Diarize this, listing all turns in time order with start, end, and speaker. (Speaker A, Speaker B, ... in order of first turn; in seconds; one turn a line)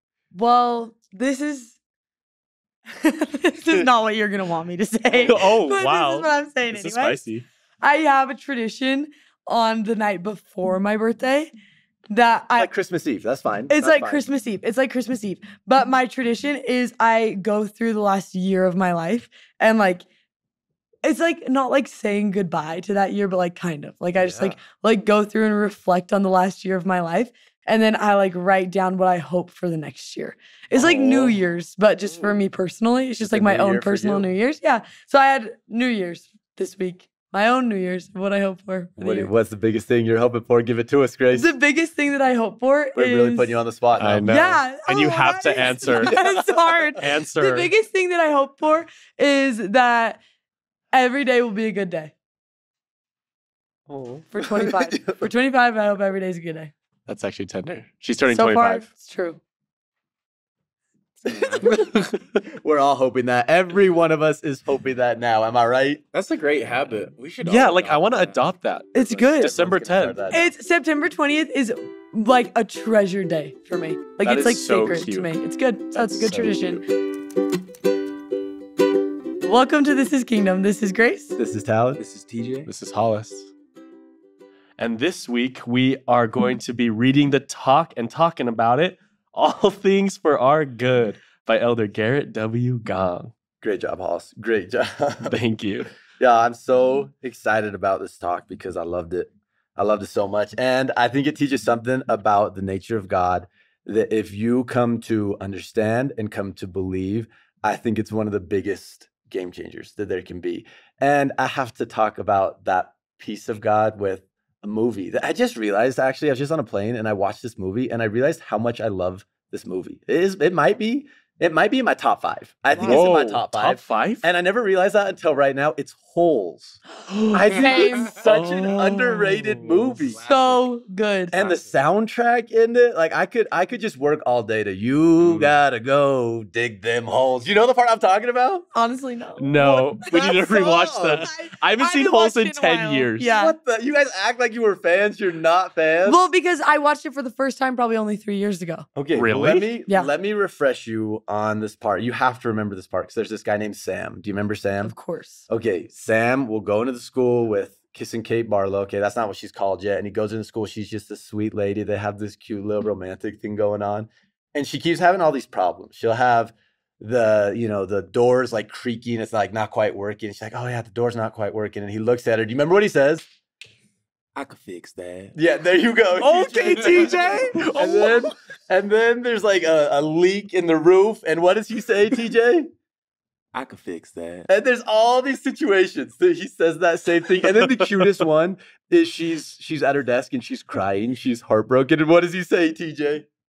Speaker A: 0.3-1.8
Speaker A: 3.0-7.2
Speaker B: 5.2-7.4
Speaker A: 7.8-11.5
Speaker A: 12.1-12.7
Speaker C: 12.6-14.2
Speaker A: 13.7-20.0
Speaker A: 21.0-39.3
Speaker C: 24.2-24.6
Speaker C: 30.7-31.4
Speaker C: 33.2-34.3
Speaker C: 39.0-41.5
Speaker A: 41.3-43.6
Speaker C: 43.0-44.3
Speaker B: 44.0-46.1
Speaker A: 44.3-50.2
Speaker B: 47.0-47.7
Speaker A: 50.9-52.1
Speaker B: 53.9-54.3
Speaker A: 54.3-56.7
Speaker C: 54.4-55.2
Speaker B: 57.1-58.9
Speaker A: 58.3-59.4
Speaker C: 61.2-61.8
Speaker D: 61.3-61.6
Speaker B: 61.6-62.2
Speaker C: 62.5-66.0
Speaker D: 66.1-68.4
Speaker B: 67.4-70.2
Speaker A: 68.9-69.5
Speaker C: 69.4-70.5
Speaker A: 70.3-76.8
Speaker B: 74.2-75.3
Speaker B: 75.9-76.8
Speaker A: 79.4-81.3
Speaker C: 81.4-82.0
Speaker D: 82.0-82.7
Speaker B: 82.7-83.5
Speaker B: 84.8-93.3
Speaker C: 93.6-95.4
Speaker B: 95.3-95.9
Speaker C: 96.2-126.8
Speaker B: 122.8-124.2
Speaker A: 126.9-128.2
Speaker C: 127.3-130.2
Speaker D: 127.7-128.1
Speaker B: 128.2-129.8
Speaker D: 129.9-130.7
Speaker A: 130.2-131.3
Speaker D: 131.3-131.8
Speaker C: 131.3-138.7
Speaker D: 135.2-135.5
Speaker A: 138.7-143.6
Speaker B: 139.4-143.3
Speaker C: 140.1-141.2
Speaker C: 143.3-146.2
Speaker A: 146.0-148.9
Speaker C: 148.9-154.9
Speaker B: 149.1-149.7
Speaker A: 154.8-155.4
Speaker C: 155.5-173.3
Speaker D: 174.3-175.3
Speaker C: 175.3-182.7
Speaker B: 176.2-178.3
Speaker D: 183.5-184.5
Speaker C: 184.5-193.2
Speaker B: 187.4-188.1